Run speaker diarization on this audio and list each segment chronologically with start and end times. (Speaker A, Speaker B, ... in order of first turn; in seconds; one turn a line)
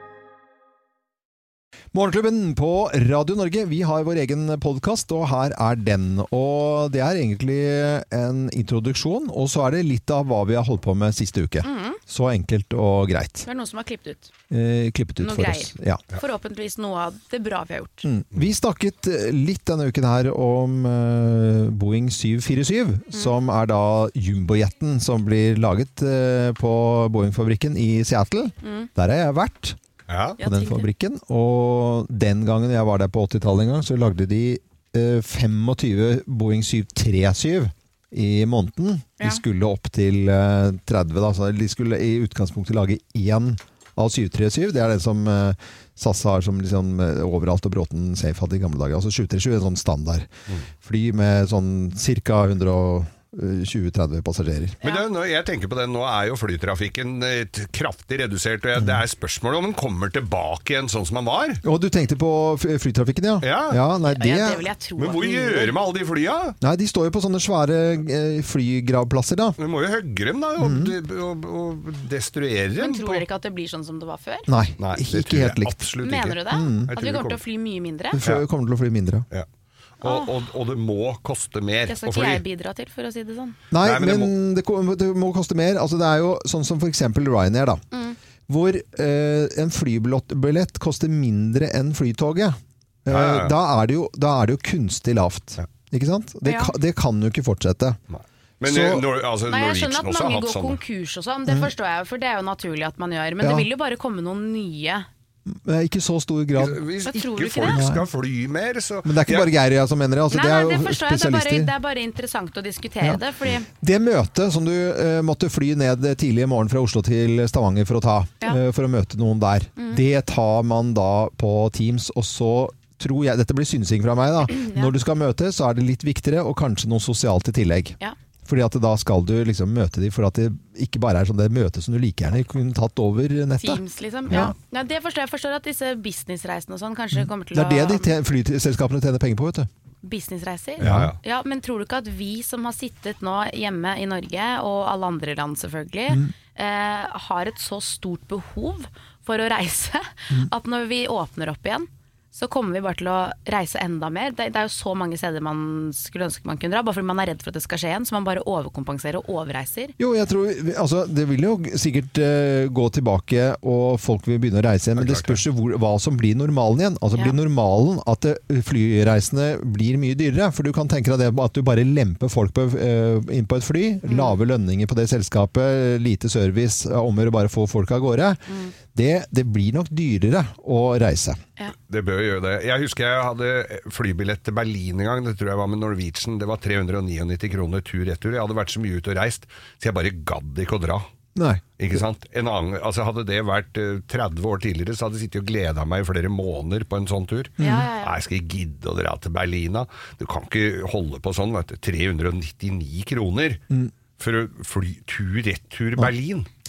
Speaker A: 1.9-13.4
Speaker B: 11.6-12.0
Speaker B: 13.4-14.3
Speaker A: 14.5-16.0
Speaker B: 15.2-18.1
Speaker A: 18.0-29.8
Speaker B: 28.6-28.9
Speaker C: 30.1-30.4
Speaker B: 30.4-30.9
Speaker A: 30.4-50.3
Speaker A: 50.8-54.8
Speaker C: 54.8-61.6
Speaker A: 58.8-59.0
Speaker A: 61.6-64.6
Speaker C: 63.4-63.8
Speaker B: 64.0-65.7
Speaker C: 65.0-66.5
Speaker A: 66.6-69.6
Speaker C: 69.6-73.2
Speaker A: 70.6-70.9
Speaker B: 72.8-74.5
Speaker A: 74.5-75.8
Speaker C: 74.8-77.4
Speaker B: 76.0-78.2
Speaker A: 76.5-76.9
Speaker A: 78.1-79.2
Speaker C: 80.0-82.4
Speaker B: 80.0-80.3
Speaker B: 81.9-83.5
Speaker A: 83.7-87.8
Speaker C: 83.8-84.3
Speaker B: 87.9-88.2
Speaker A: 88.5-98.0
Speaker C: 93.1-93.5
Speaker B: 96.4-96.7
Speaker C: 98.1-100.8
Speaker A: 98.6-99.1
Speaker B: 99.5-105.1
Speaker A: 103.4-103.7
Speaker A: 105.5-106.8
Speaker C: 106.5-109.5
Speaker B: 107.0-107.8
Speaker A: 107.7-108.0
Speaker A: 109.0-111.7
Speaker B: 110.3-113.7
Speaker A: 113.8-134.5
Speaker B: 119.8-120.0
Speaker B: 124.5-124.9
Speaker B: 133.6-138.1
Speaker A: 137.1-139.7
Speaker B: 140.0-159.9
Speaker C: 140.8-141.2
Speaker A: 140.8-141.1
Speaker A: 160.0-178.4
Speaker C: 165.0-165.3
Speaker B: 174.1-174.4
Speaker B: 178.5-178.7
Speaker A: 178.9-181.4
Speaker C: 181.9-191.0
Speaker A: 191.3-192.0
Speaker C: 191.8-203.6
Speaker A: 197.6-197.9
Speaker B: 197.6-198.1
Speaker C: 204.2-206.5